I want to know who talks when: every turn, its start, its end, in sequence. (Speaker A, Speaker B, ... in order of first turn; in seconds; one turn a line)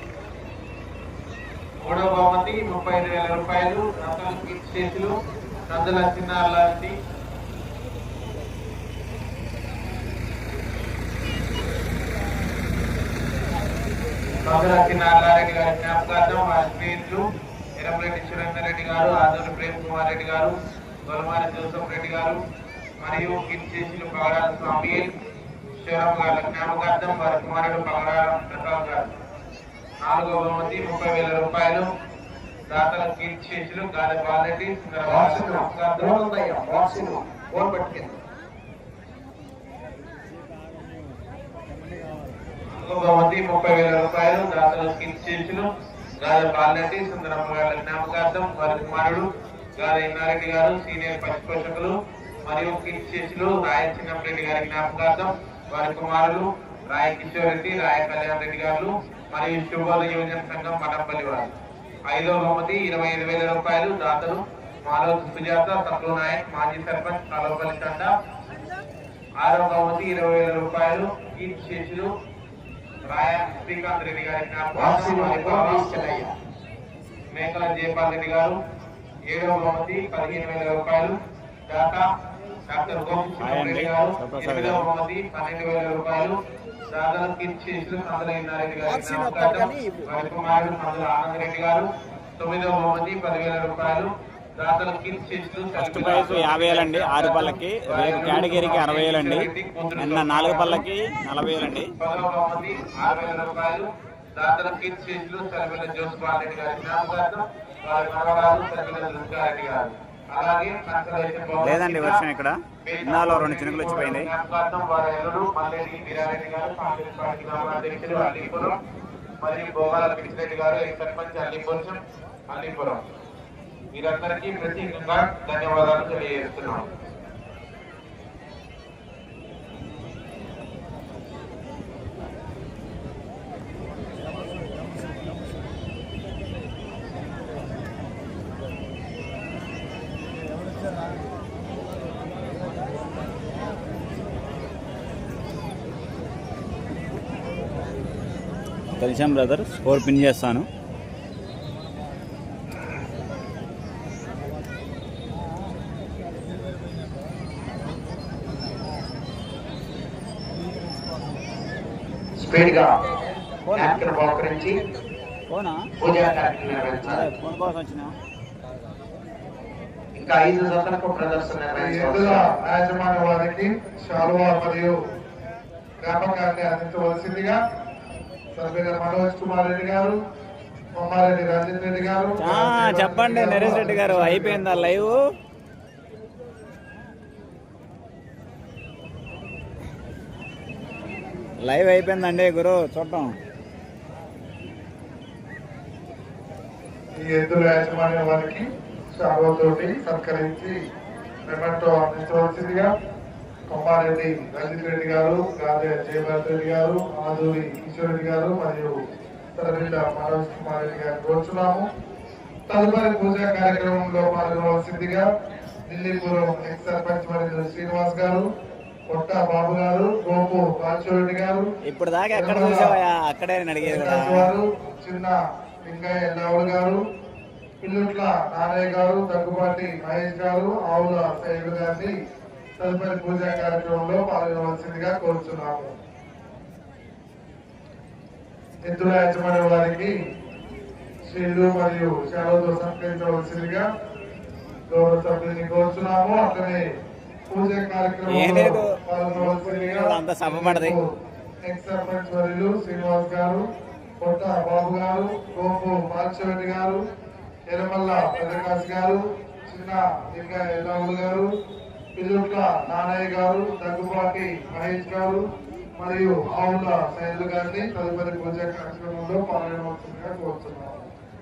Speaker A: 1.8-5.1
Speaker A: 5.7-7.0
Speaker A: 14.4-17.2
Speaker A: 17.8-20.5
Speaker A: 21.1-22.4
Speaker A: 23.0-25.1
Speaker A: 25.8-29.1
Speaker A: 30.0-31.9
Speaker A: 32.7-36.2
Speaker B: 35.0-38.2
Speaker A: 42.8-45.7
Speaker A: 46.2-52.0
Speaker A: 52.5-61.5
Speaker A: 62.1-68.1
Speaker A: 69.4-72.1
Speaker A: 73.1-75.9
Speaker B: 74.7-76.3
Speaker A: 77.3-78.6
Speaker A: 79.3-81.2
Speaker A: 81.7-82.1
Speaker A: 82.7-86.4
Speaker C: 83.4-84.9
Speaker A: 86.9-100.8
Speaker C: 95.8-101.9
Speaker A: 102.0-112.2
Speaker C: 111.6-114.3
Speaker A: 112.8-118.8
Speaker A: 119.4-123.0
Speaker A: 123.9-126.9
Speaker C: 149.0-150.7
Speaker B: 162.4-162.9
Speaker C: 163.7-164.0
Speaker B: 163.8-164.8
Speaker C: 165.5-165.8
Speaker B: 166.0-167.3
Speaker C: 167.1-168.1
Speaker B: 170.2-172.5
Speaker D: 171.8-174.9
Speaker D: 176.0-177.6
Speaker D: 178.6-180.2
Speaker D: 181.0-185.1
Speaker C: 182.4-185.2
Speaker C: 191.6-193.4
Speaker D: 197.2-200.8
Speaker D: 201.5-202.9
Speaker D: 203.7-209.0
Speaker D: 209.6-211.9
Speaker D: 212.7-215.3
Speaker D: 215.9-218.5
Speaker D: 219.1-221.7
Speaker C: 221.9-224.5
Speaker D: 222.3-223.0
Speaker D: 223.8-227.0
Speaker D: 227.8-232.1
Speaker D: 232.8-235.9
Speaker D: 238.8-240.2
Speaker D: 241.2-243.9
Speaker D: 244.9-246.9
Speaker D: 247.5-251.1
Speaker C: 248.3-251.0
Speaker D: 251.6-253.7
Speaker D: 254.2-257.0
Speaker D: 257.7-261.5
Speaker D: 262.2-265.4
Speaker D: 266.0-271.1